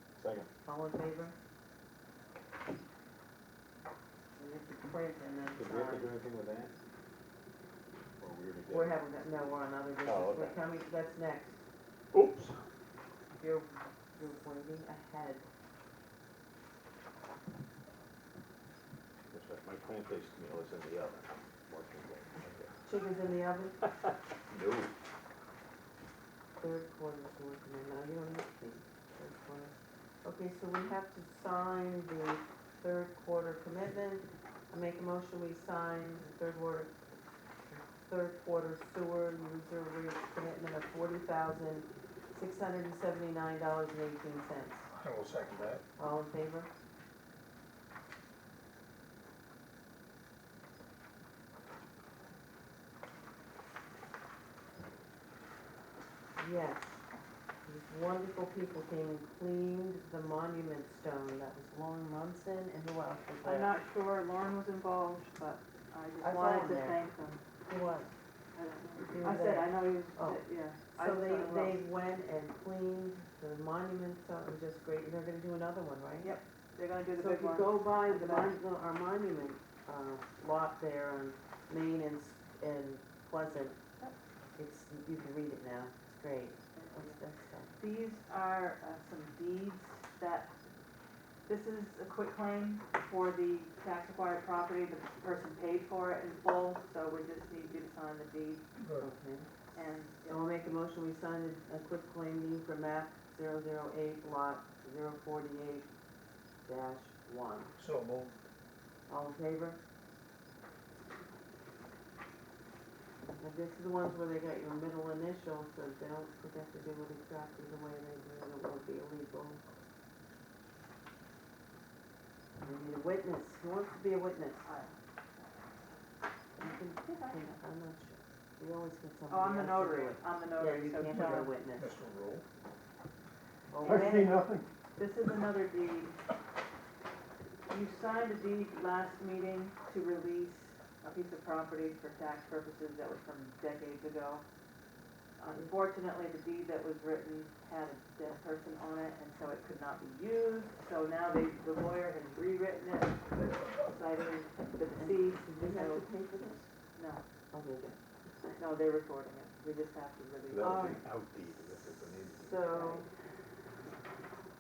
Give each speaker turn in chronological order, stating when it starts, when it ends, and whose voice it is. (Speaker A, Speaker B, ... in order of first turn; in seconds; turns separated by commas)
Speaker A: 0.2-0.5, Speaker B: 0.6-1.4, Speaker B: 4.4-6.1, Speaker A: 5.6-6.7, Speaker A: 8.2-9.0, Speaker B: 8.7-11.6, Speaker A: 10.0-10.6, Speaker A: 12.1-12.6, Speaker B: 13.4-15.4, Speaker A: 19.3-22.7, Speaker B: 22.8-23.8, Speaker A: 24.5-24.9, Speaker B: 26.6-36.9, Speaker B: 38.0-44.9, Speaker C: 44.9-45.8, Speaker B: 46.0-46.7, Speaker B: 56.4-57.0, Speaker B: 57.6-63.8, Speaker D: 63.4-67.4, Speaker B: 66.2-67.0, Speaker B: 67.7-68.1, Speaker D: 68.5-71.8, Speaker B: 69.0-76.4, Speaker D: 76.2-78.6, Speaker B: 77.1-83.8, Speaker B: 84.6-87.8, Speaker D: 86.7-87.2, Speaker D: 87.8-90.5, Speaker D: 91.5-98.7, Speaker C: 98.8-99.1, Speaker B: 99.0-99.5, Speaker D: 99.7-100.5, Speaker B: 100.3-105.9, Speaker B: 106.7-107.7, Speaker C: 107.8-108.4, Speaker B: 109.1-109.8, Speaker B: 113.4-119.6, Speaker B: 122.6-124.7, Speaker D: 124.7-124.9, Speaker B: 126.6-132.0, Speaker D: 126.6-127.6, Speaker D: 129.3-131.5, Speaker C: 131.8-132.4, Speaker B: 133.7-134.4, Speaker D: 133.8-134.4, Speaker A: 133.8-134.7, Speaker D: 135.0-136.2, Speaker D: 137.7-144.4, Speaker D: 145.4-156.1, Speaker B: 154.9-156.7, Speaker D: 156.9-157.2, Speaker B: 157.5-158.6, Speaker D: 158.6-161.0, Speaker A: 160.5-163.0, Speaker B: 160.6-161.0, Speaker B: 162.3-163.1